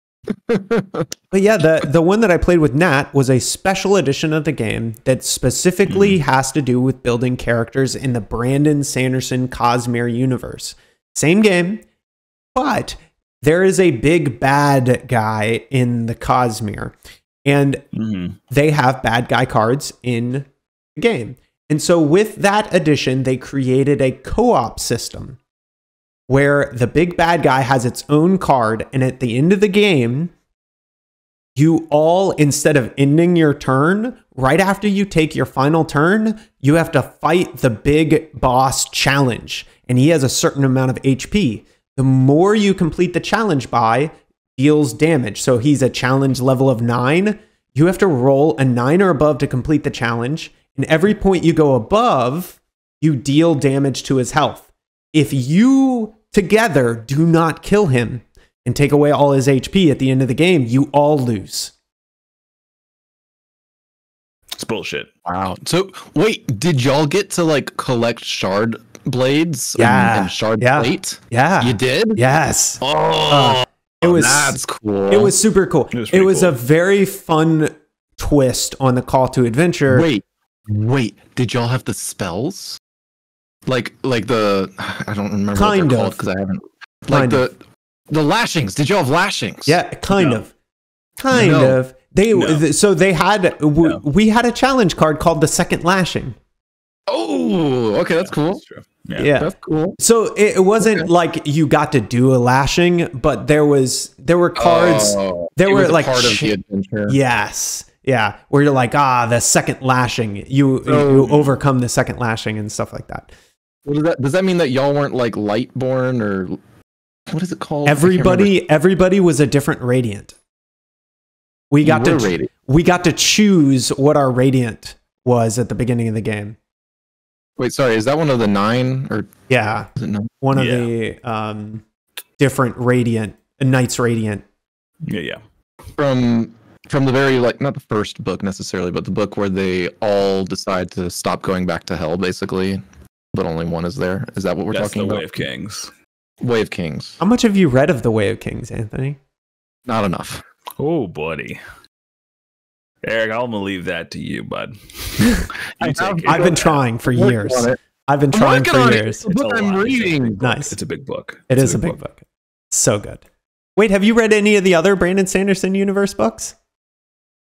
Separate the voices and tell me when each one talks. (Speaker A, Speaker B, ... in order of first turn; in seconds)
Speaker A: 0.3-1.1, 65.3-72.2, 72.8-75.3, 79.9-82.8, 83.7-87.6, 88.1-89.8, 91.3-91.8, 97.1-98.6, 99.3-100.0, 100.8-101.1, 104.6-107.2, 110.8-111.5, 113.8-116.6, 117.3-118.5, 121.8-122.5, 127.6-129.3, 130.0-130.3, 136.0-145.4, 146.4-147.2, 149.9-150.4, 155.8-157.8, 158.3-160.4
Speaker B: 1.3-11.8, 12.6-16.9, 17.5-17.8, 18.5-25.4, 26.3-30.3, 31.6-61.7, 69.8-80.1, 85.5-86.2, 87.1-87.4, 89.7-90.5, 91.2-96.4, 99.2-106.5, 107.1-113.3, 117.8-120.3, 121.7-126.6, 129.5-129.9, 130.4-131.8, 132.4-134.4, 147.2-149.2, 156.2-159.3, 160.4-160.8, 161.5-162.2, 162.7-163.2, 163.8-166.5
Speaker C: 5.9-6.2, 17.9-18.4, 64.6-65.1, 75.9-76.5, 90.1-90.4, 92.3-92.6, 98.2-99.3, 130.5-130.9, 135.1-135.4, 144.7-145.9, 150.8-151.6, 153.0-156.7, 159.3-162.0